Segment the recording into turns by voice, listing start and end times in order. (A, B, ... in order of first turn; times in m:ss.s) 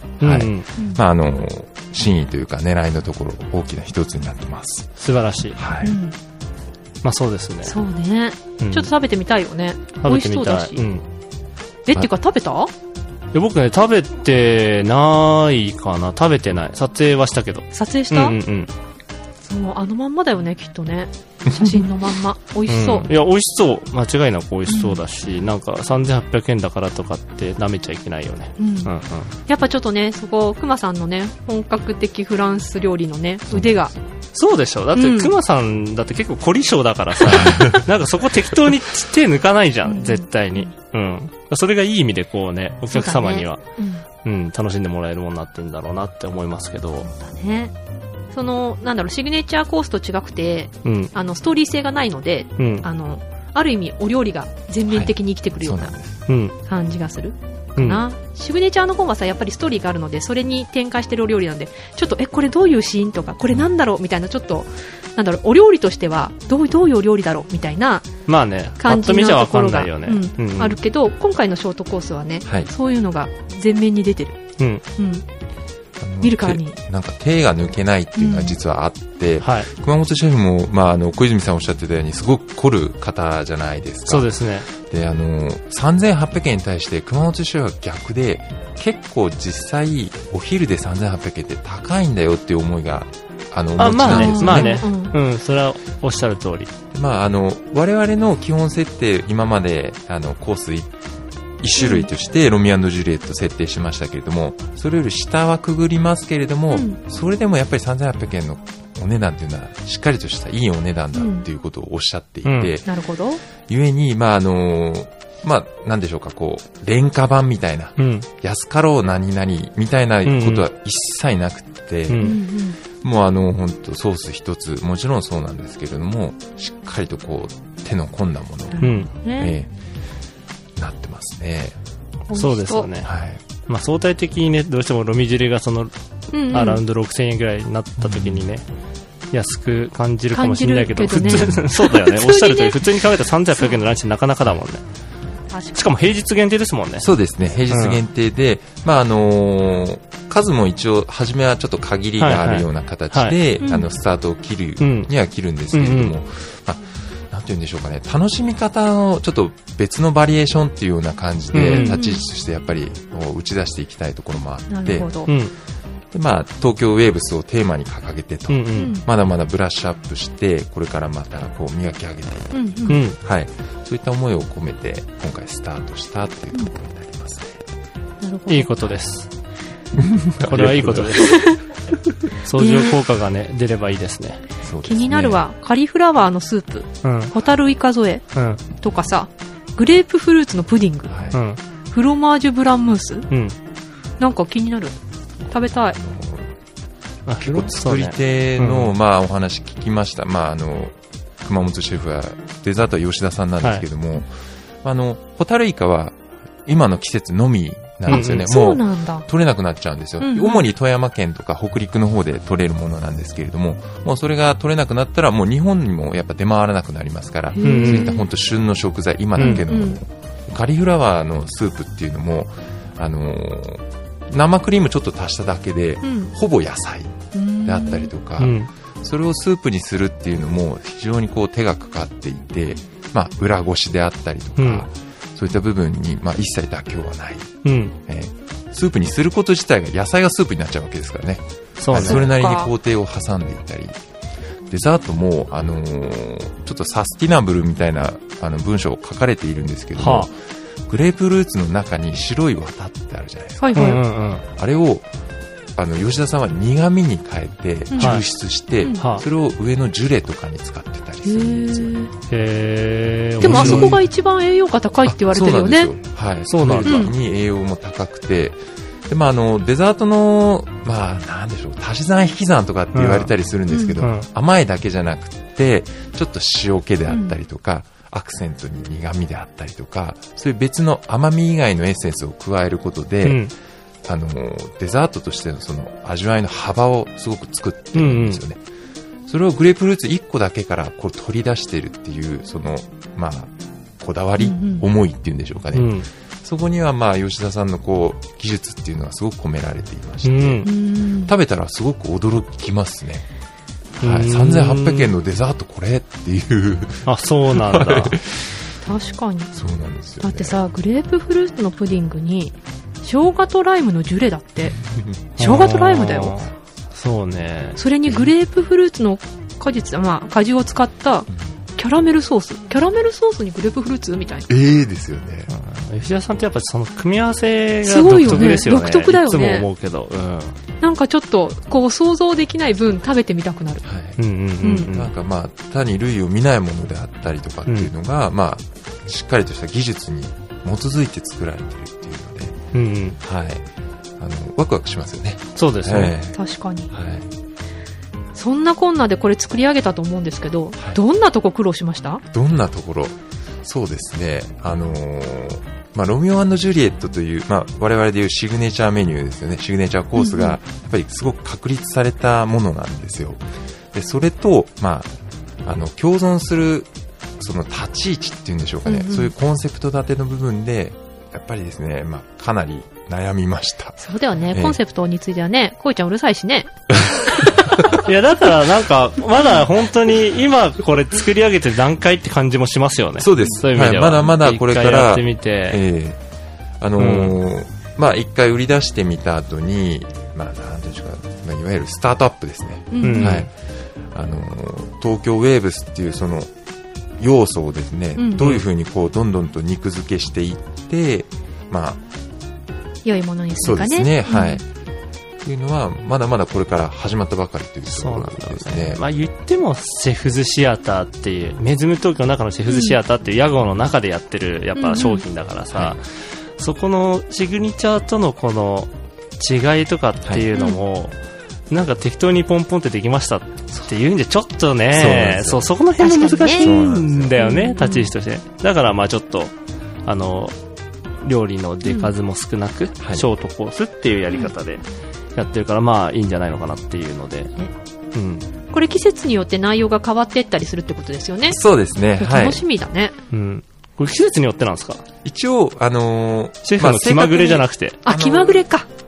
0:00.2-0:00.7 A
0:00.2-0:05.0 B
0:05.0-0:05.6 A
0:05.6-0:06.0 B
0:05.8-0:06.2 C
0:07.0-0:07.8 A
0:07.6-0:10.8 C
0:08.6-0:08.9 A
0:10.0-0:11.0 A
0:11.9-0:12.7 C
0:13.3-0:18.7 A
0:17.7-0:18.4 C
0:19.4-0:23.1 C
0:22.7-0:29.3 A
0:24.7-0:25.0 C
0:28.6-0:28.9 C
0:29.5-0:33.9 C
0:34.3-0:43.6 A
0:35.0-0:35.3 C
0:37.3-0:37.8 B
0:39.8-0:40.7 C
0:42.9-0:44.0 C
0:44.2-0:47.1 A
0:47.0-0:47.7 C
0:48.3-0:55.9 C
0:50.8-0:51.1 A
0:52.6-0:52.8 A
0:54.9-0:56.2 B
0:56.3-0:56.6 A
0:56.6-1:08.1 C
0:57.8-0:58.0 A
1:08.3-1:10.8 A
1:08.8-1:14.4 C
1:12.4-1:12.7 B
1:15.0-1:15.2 C
1:16.0-1:34.8 B
1:16.2-1:16.8 C
1:18.2-1:18.6 C
1:19.4-1:19.7 A
1:24.1-1:24.7 A
1:33.8-1:36.7 A
1:34.0-1:35.2 C
1:36.9-1:40.9 B
1:41.6-1:52.9 B
1:41.8-1:42.1 C
1:46.7-1:47.0 C
1:51.1-1:51.4 C
1:52.5-1:52.7 A
1:52.9-1:53.4 C
1:53.6-2:02.3 B
1:58.0-1:58.3 A
2:00.2-2:00.6 A
2:02.1-2:02.4 A
2:02.2-2:02.8 C
2:02.9-2:09.7 B
2:08.7-2:09.5 C
2:08.8-2:09.1 A
2:10.8-2:11.8 B
2:12.3-2:12.9 C
2:12.4-2:13.1 A
2:13.0-2:13.4 B
2:13.7-2:15.9 A
2:16.3-2:16.8 C
2:16.5-2:18.6 A
2:18.0-2:18.4 B
2:19.3-2:24.8 A
2:20.3-2:22.8 C
2:21.2-2:21.6 B
2:25.5-2:25.8 C
2:25.8-2:27.1 A
2:27.0-2:45.3 B
2:27.7-2:28.0 A
2:32.2-2:33.4 A
2:33.6-2:33.9 C
2:34.8-2:35.1 A
2:35.7-2:36.1 A
2:41.5-2:42.0 A
2:41.7-2:42.2 C
2:44.7-2:45.3 C
2:45.3-2:45.5 A
2:46.1-2:57.6 B
2:48.5-2:49.0 A
2:48.8-2:49.0 C
2:52.5-2:53.0 C
2:52.9-2:53.2 A
2:58.2-2:58.9 C
2:58.5-2:59.3 A
2:59.9-3:01.4 B
3:00.4-3:01.6 A
3:01.3-3:01.6 C
3:02.4-3:04.4 A
3:02.6-3:02.9 C
3:04.6-3:05.4 B
3:04.8-3:11.2 C
3:07.0-3:07.3 A
3:08.4-3:08.6 A
3:11.1-3:11.4 B
3:11.3-3:11.6 A
3:11.9-3:13.3 C
3:13.3-3:13.6 A
3:14.2-3:15.0 C
3:15.5-3:16.0 C
3:15.8-3:16.5 B
3:17.3-3:18.9 A
3:17.4-3:24.3 B
3:24.8-4:04.0 B
3:28.1-3:29.3 C
3:28.1-3:28.5 A
3:30.2-3:30.6 C
3:37.6-3:38.2 C
3:37.6-3:38.2 A
3:39.4-3:40.0 C
3:39.4-3:39.6 A
3:46.0-3:46.3 C
3:47.3-3:48.1 C
3:48.4-3:48.7 A
3:54.6-3:54.9 A
3:57.6-3:58.0 A
4:01.8-4:02.3 A
4:02.0-4:02.7 C
4:04.7-4:10.4 B
4:10.0-4:10.3 A
4:10.9-4:14.0 B
4:13.6-4:14.0 C
4:13.7-4:14.4 A
4:14.5-4:15.1 B
4:15.8-4:22.0 B
4:17.9-4:18.2 C
4:19.0-4:19.2 A
4:21.2-4:22.1 C
4:22.3-4:24.0 A
4:23.4-4:24.0 B
4:23.4-4:25.9 C
4:25.0-4:43.5 B
4:26.5-4:27.1 A
4:26.8-4:27.1 C
4:32.9-4:33.3 A
4:33.7-4:34.0 C
4:34.0-4:34.3 A
4:37.1-4:37.4 C
4:43.2-4:43.5 A
4:44.0-4:48.6 B
4:47.9-4:48.4 A
4:49.3-5:03.3 B
4:54.4-4:54.9 C
4:55.7-4:56.1 A
5:00.2-5:00.7 A
5:00.6-5:01.3 C
5:04.0-5:08.6 B
5:04.0-5:05.1 A
5:07.1-5:08.2 A
5:08.8-5:09.5 C
5:09.5-5:10.6 B
5:10.2-5:14.8 C
5:14.6-5:15.2 B
5:15.4-5:17.8 A
5:15.4-5:16.5 C
5:17.8-5:24.5 C
5:18.1-5:18.3 B
5:24.5-5:25.5 B
5:25.5-5:30.6 A
5:27.8-5:29.7 C
5:30.8-5:33.8 C
5:33.8-5:34.2 B
5:34.2-5:35.1 A
5:34.6-5:34.9 C
5:34.8-5:42.6 B
5:42.7-5:43.2 A
5:43.2-5:43.7 B
5:44.2-5:46.4 B
5:45.6-5:46.2 A
5:46.3-5:46.9 C
5:46.9-5:47.3 B
5:48.3-5:52.2 C
5:52.3-6:05.1 B
6:00.2-6:00.6 C
6:05.6-6:14.8 B
6:08.9-6:09.3 C
6:14.0-6:16.7 C
6:17.7-6:18.0 B
6:18.0-6:25.8 A
6:23.2-6:26.2 B
6:26.8-6:33.5 B
6:27.0-6:27.4 A
6:32.9-6:33.4 C
6:33.0-6:33.5 A
6:34.1-6:36.5 B
6:37.2-6:42.0 B
6:38.2-6:38.6 C
6:43.0-6:44.6 C
6:43.6-6:44.6 B
6:45.4-6:49.0 B
6:47.9-7:01.2 A
6:52.7-6:53.0 C
6:54.8-6:55.2 C
7:00.6-7:00.8 C
7:01.7-7:09.5 A
7:04.9-7:05.7 B
7:06.0-7:06.7 C
7:06.6-7:07.4 B
7:07.4-7:08.1 C
7:10.1-7:10.6 A
7:11.2-7:14.8 A
7:11.8-7:12.1 C
7:13.0-7:13.2 B
7:15.4-7:17.6 A
7:18.1-7:18.5 A
7:18.7-7:21.6 C
7:21.5-7:22.6 B
7:22.2-7:23.2 C
7:23.3-7:25.0 A
7:25.2-7:28.7 B
7:26.6-7:28.0 A
7:28.0-7:28.9 C